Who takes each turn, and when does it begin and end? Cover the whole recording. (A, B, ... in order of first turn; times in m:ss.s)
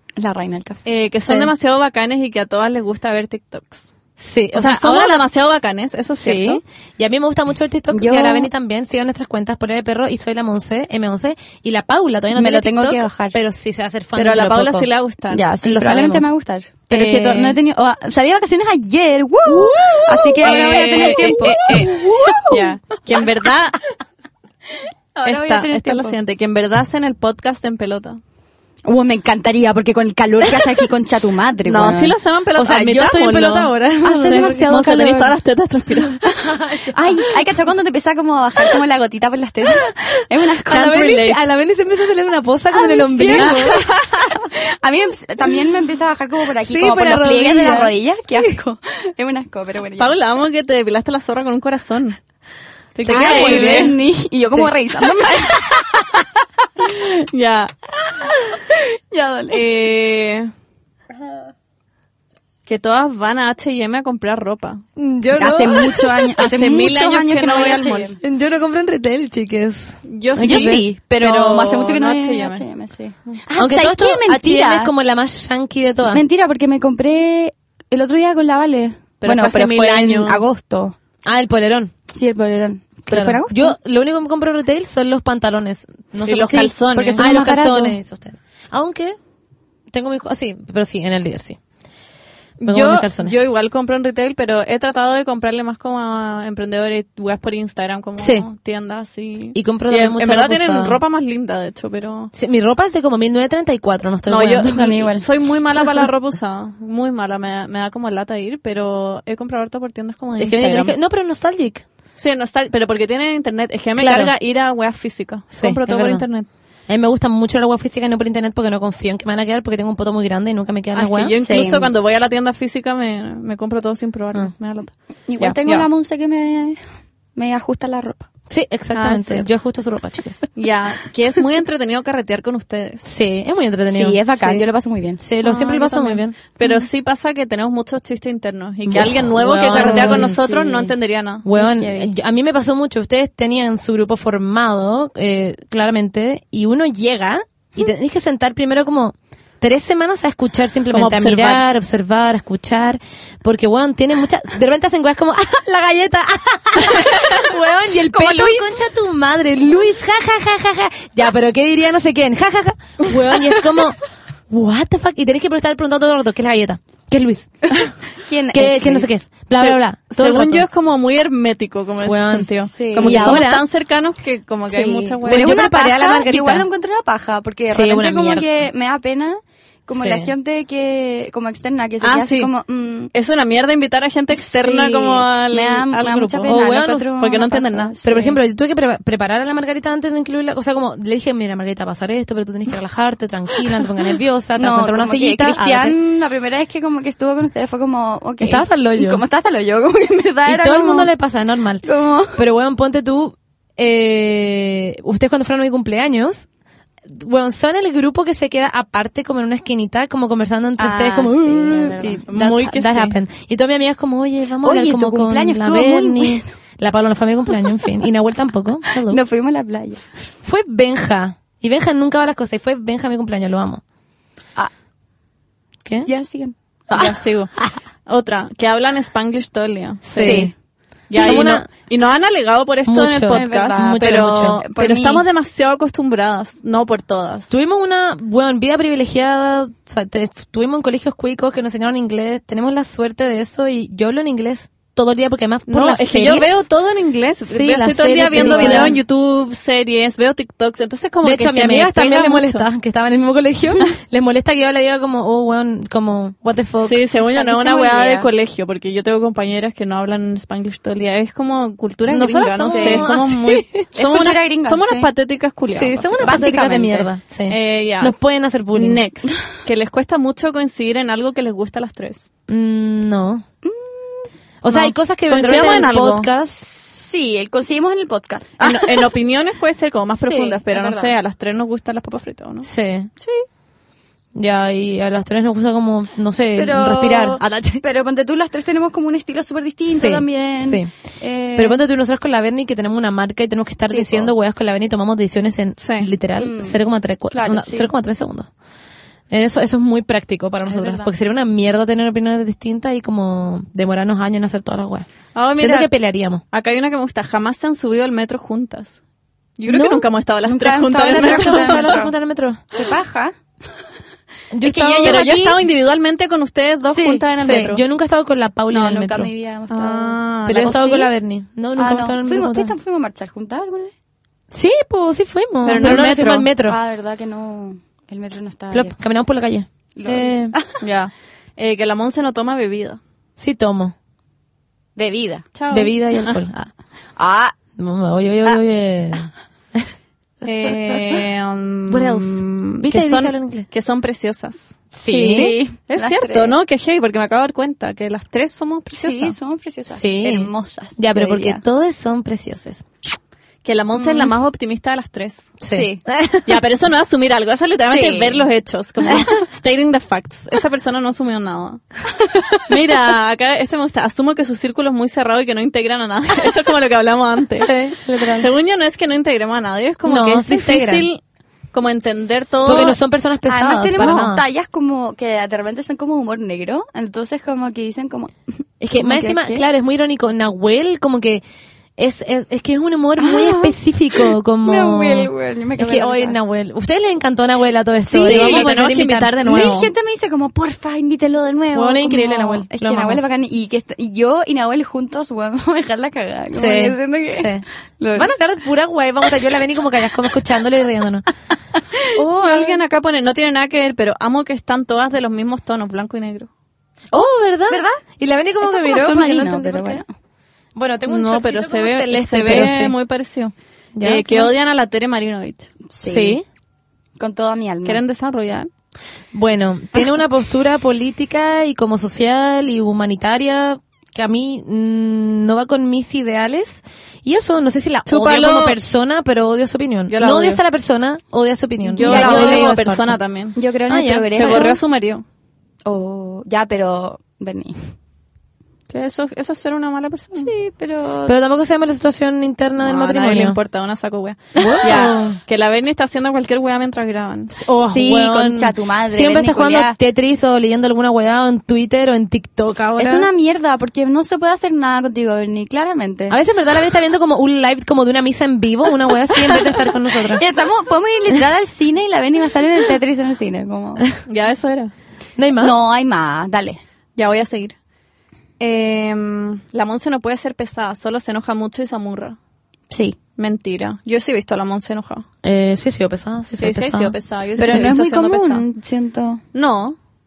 0:00.2-0:00.8 A
0:00.8-0:03.9 B
0:01.2-0:01.5 C
0:04.2-0:05.2 C
0:04.5-0:06.6 B
0:06.1-0:14.9 C
0:07.9-0:08.5 A
0:12.4-0:13.4 A
0:14.2-0:15.5 B
0:15.3-0:22.9 A
0:15.6-0:16.3 C
0:16.9-0:17.6 B
0:19.5-0:23.8 B
0:19.7-0:22.4 C
0:25.2-0:26.2 A
0:25.2-0:28.2 B
0:28.8-0:32.1 A
0:31.7-0:36.2 B
0:32.6-0:35.3 C
0:34.0-0:35.2 A
0:36.2-0:37.3 C
0:36.9-0:41.1 A
0:40.7-0:43.8 C
0:40.7-0:41.4 B
0:42.7-0:50.1 A
0:43.3-0:44.5 B
0:46.6-0:48.5 C
0:50.0-0:52.2 B
0:53.0-0:54.0 B
0:53.0-0:56.3 A
0:53.1-0:54.0 C
0:56.8-0:57.7 B
0:58.1-0:59.6 A
0:59.5-1:00.5 B
1:02.7-1:04.8 B
1:05.0-1:06.3 C
1:05.4-1:08.2 A
1:06.4-1:08.1 B
1:08.2-1:10.8 C
1:10.0-1:12.6 B
1:10.4-1:14.9 A
1:13.6-1:16.2 C
1:15.9-1:21.0 A
1:19.2-1:20.4 B
1:21.2-1:21.9 C
1:22.1-1:23.8 A
1:23.1-1:29.2 C
1:26.2-1:27.2 B
1:26.5-1:28.0 A
1:29.9-1:31.6 C
1:32.6-1:42.3 B
1:32.6-1:33.4 C
1:38.2-1:38.5 C
1:39.5-1:41.0 C
1:42.3-1:45.0 C
1:44.3-1:50.9 B
1:44.7-1:45.3 A
1:50.4-1:51.8 C
1:52.2-1:56.5 B
1:54.0-1:54.3 C
1:55.5-1:56.2 C
1:56.9-2:01.4 C
2:01.0-2:04.9 B
2:01.3-2:01.9 A
2:05.3-2:06.8 A
2:07.4-2:08.3 A
2:08.5-2:10.4 C
2:08.9-2:09.5 B
2:10.6-2:13.1 B
2:13.0-2:14.7 C
2:13.9-2:15.2 A
2:15.2-2:16.4 C
2:15.4-2:21.5 B
2:18.9-2:20.4 C
2:19.7-2:20.9 A
2:21.4-2:44.0 C
2:21.5-2:22.1 A
2:30.9-2:31.6 B
2:36.8-2:38.8 A
2:44.5-2:47.7 C
2:48.2-2:49.1 A
2:48.5-2:50.7 C
2:49.6-2:55.7 B
2:52.0-2:53.6 C
2:52.7-2:53.4 A
2:54.7-3:03.1 A
2:55.3-2:56.7 C
2:57.7-2:58.5 C
2:59.9-3:00.3 C
3:02.0-3:02.5 B
3:03.1-3:06.6 B
3:04.3-3:08.4 A
3:06.5-3:07.1 C
3:07.2-3:08.0 B
3:08.0-3:16.0 C
3:14.6-3:21.1 A
3:18.4-3:19.2 C
3:20.5-3:26.5 C
3:21.8-3:22.4 A
3:27.1-3:39.2 C
3:30.8-3:32.2 A
3:32.3-3:33.2 B
3:34.6-3:36.4 A
3:39.1-3:40.0 A
3:40.4-3:43.8 C
3:46.0-3:46.6 A
3:46.9-3:47.6 B
3:48.1-3:50.5 B
3:50.1-3:50.5 C
3:50.2-3:50.5 A
3:51.1-3:57.5 B
3:51.1-3:51.7 C
3:51.2-3:51.5 A
3:52.9-3:54.6 C
3:53.3-3:55.2 A
3:57.5-4:06.6 C
4:05.7-4:12.7 B
4:07.5-4:09.0 C
4:08.3-4:09.0 A
4:11.2-4:17.0 C
4:16.8-4:26.4 B
4:17.3-4:18.3 A
4:22.0-4:23.8 C
4:22.6-4:23.2 A
4:24.0-4:25.1 A
4:25.7-4:29.0 C
4:26.2-4:27.1 A
4:27.5-4:28.1 B
4:28.8-4:32.3 B
4:32.5-4:33.4 C
4:33.6-4:34.3 A
4:34.6-4:36.6 C
4:34.7-4:36.3 B
4:36.6-4:39.1 A
4:38.6-4:42.7 B
4:40.1-4:41.1 A
4:42.6-4:43.1 C
4:44.4-4:47.4 C
4:46.6-4:51.8 A
4:47.4-4:47.8 B
4:49.9-4:50.9 C
4:51.6-4:58.5 C
4:53.9-4:54.3 A
4:55.8-4:56.1 B
4:56.4-4:57.9 A
4:59.3-5:06.4 C
5:00.7-5:01.1 A
5:05.3-5:05.9 B
5:06.5-5:09.0 B
5:09.6-5:12.0 B
5:09.7-5:12.1 A
5:11.1-5:12.6 C
5:12.7-5:13.3 A
5:14.5-5:15.5 C
5:14.6-5:15.6 A
5:15.0-5:17.8 B
5:16.9-5:17.2 A
5:17.4-5:19.3 C
5:18.7-5:21.1 A
5:19.7-5:20.8 B
5:20.5-5:22.8 C
5:21.8-5:23.9 A
5:24.5-5:26.8 C
5:25.6-5:29.0 A
5:25.7-5:26.5 B
5:28.7-5:29.7 C
5:30.0-5:30.8 A
5:30.0-5:33.0 B
5:33.4-5:33.9 C
5:35.0-5:35.5 A
5:35.6-5:36.4 B
5:35.7-5:36.7 C
5:37.2-5:37.6 A
5:37.8-5:39.8 C
5:40.4-5:49.4 B
5:41.9-5:43.7 C
5:44.9-5:45.6 C
5:45.2-5:46.6 A
5:48.9-5:51.6 A
5:49.9-5:52.8 C
5:53.6-5:55.5 B
5:54.0-5:54.4 A
5:55.6-5:56.6 C
5:55.7-5:56.0 A
5:56.4-6:01.8 B
5:57.9-5:58.4 A
6:02.7-6:07.7 B
6:07.6-6:08.5 C
6:08.3-6:11.2 B
6:10.0-6:11.1 C
6:11.7-6:13.0 B
6:12.6-6:14.4 C
6:13.5-6:18.3 A
6:14.0-6:14.3 B
6:18.8-6:21.4 C
6:18.9-6:19.6 A
6:22.0-6:29.7 C
6:23.2-6:26.4 A
6:28.0-6:28.8 A
6:28.2-6:29.9 B
6:29.4-6:38.4 A
6:31.7-6:33.3 C
6:36.6-6:41.3 C
6:41.9-6:42.8 A
6:42.2-6:46.5 B
6:47.1-6:50.0 C
6:47.1-6:48.0 A
6:48.6-6:50.1 A
6:50.8-6:52.9 C
6:51.1-6:55.7 B
6:54.0-6:54.5 C
6:55.9-6:56.4 A
6:56.0-6:56.4 C
6:57.2-6:58.0 A
6:57.8-6:58.7 B
6:59.3-7:13.2 C
7:08.1-7:08.8 B
7:10.1-7:10.6 B
7:11.9-7:13.6 B
7:12.0-7:12.8 A
7:13.6-7:14.8 A
7:13.9-7:14.7 C
7:14.4-7:15.2 B
7:15.9-7:17.8 A
7:18.9-7:20.5 B
7:20.4-7:21.3 A
7:21.3-7:23.6 C
7:22.8-7:27.5 B
7:24.6-7:25.1 A
7:24.6-7:25.4 C
7:27.5-7:33.3 C
7:27.8-7:30.0 A
7:33.0-7:36.4 A
7:36.3-7:40.4 C
7:39.4-7:44.0 A
7:44.3-7:44.9 B
7:45.4-7:45.8 C
7:45.6-7:46.8 A
7:47.2-7:47.8 B
7:48.6-7:52.4 B
7:52.9-7:53.2 A
7:53.4-7:55.2 B
7:55.4-7:57.9 C
7:56.6-7:58.6 B
7:57.6-7:59.4 A
7:59.5-8:00.0 B